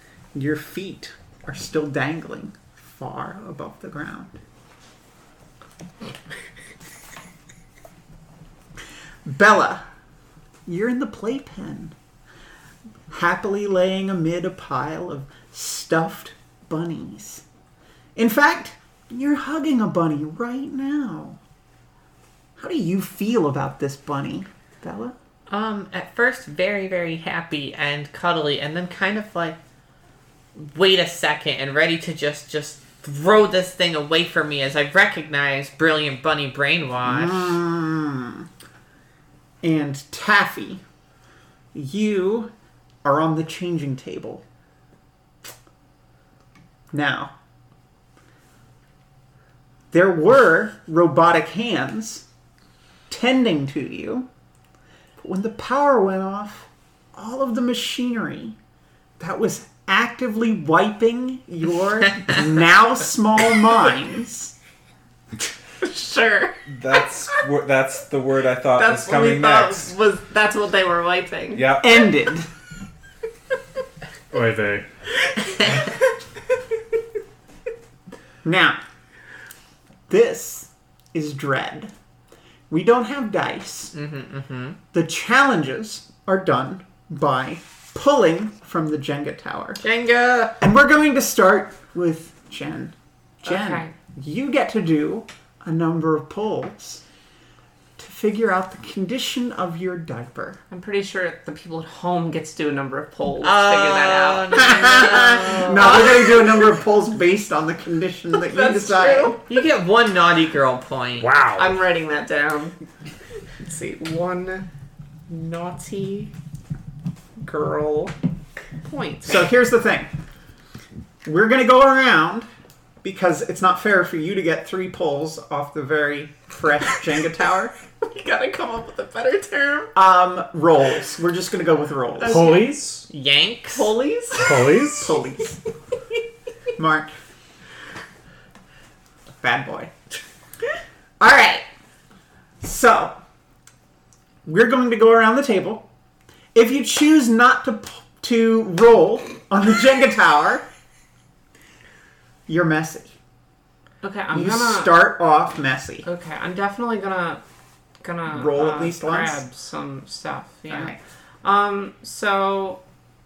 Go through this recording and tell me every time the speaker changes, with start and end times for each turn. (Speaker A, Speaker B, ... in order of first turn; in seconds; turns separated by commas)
Speaker A: 0.3-4.3, Speaker A: 9.2-9.8, Speaker A: 10.7-11.9, Speaker A: 13.1-17.4, Speaker A: 18.1-21.4, Speaker A: 22.6-25.1, Speaker B: 25.5-29.6, Speaker B: 30.6-37.6, Speaker A: 37.0-38.5, Speaker A: 39.6-40.8, Speaker A: 41.7-42.5, Speaker A: 43.0-44.4, Speaker A: 46.9-47.3, Speaker A: 49.9-52.2, Speaker A: 53.1-54.3, Speaker A: 55.2-58.5, Speaker A: 59.2-64.5, Speaker C: 65.8-67.0, Speaker D: 66.7-69.9, Speaker C: 68.7-71.7, Speaker D: 71.5-72.0, Speaker A: 71.8-72.5, Speaker E: 74.3-74.9, Speaker A: 78.4-78.8, Speaker A: 80.1-81.9, Speaker A: 82.7-83.9, Speaker B: 83.9-84.8, Speaker A: 84.9-89.8, Speaker B: 89.8-90.1, Speaker C: 90.0-90.5, Speaker A: 90.6-97.0, Speaker C: 93.4-93.9, Speaker A: 98.0-100.6, Speaker C: 100.7-106.4, Speaker B: 103.4-106.1, Speaker A: 104.6-109.4, Speaker C: 108.4-109.4, Speaker B: 109.5-111.3, Speaker E: 111.2-111.7, Speaker C: 111.5-112.8, Speaker C: 113.6-114.7, Speaker C: 115.3-116.3, Speaker C: 117.4-118.1, Speaker C: 118.8-119.5, Speaker A: 119.2-120.1, Speaker A: 121.2-122.5, Speaker A: 123.0-127.7, Speaker C: 128.0-129.9, Speaker A: 129.9-132.5, Speaker C: 132.2-132.8, Speaker E: 132.2-133.1, Speaker B: 133.1-133.9, Speaker C: 133.7-134.9, Speaker E: 134.3-135.1, Speaker A: 135.0-135.6, Speaker A: 136.8-137.1, Speaker A: 139.4-139.9, Speaker A: 141.2-141.6, Speaker A: 142.6-143.2, Speaker A: 144.4-145.9, Speaker A: 146.5-150.6, Speaker A: 152.5-153.2, Speaker C: 154.0-155.0, Speaker A: 154.3-156.1, Speaker C: 156.0-157.4, Speaker C: 158.0-162.8, Speaker A: 158.3-159.4, Speaker A: 160.7-161.0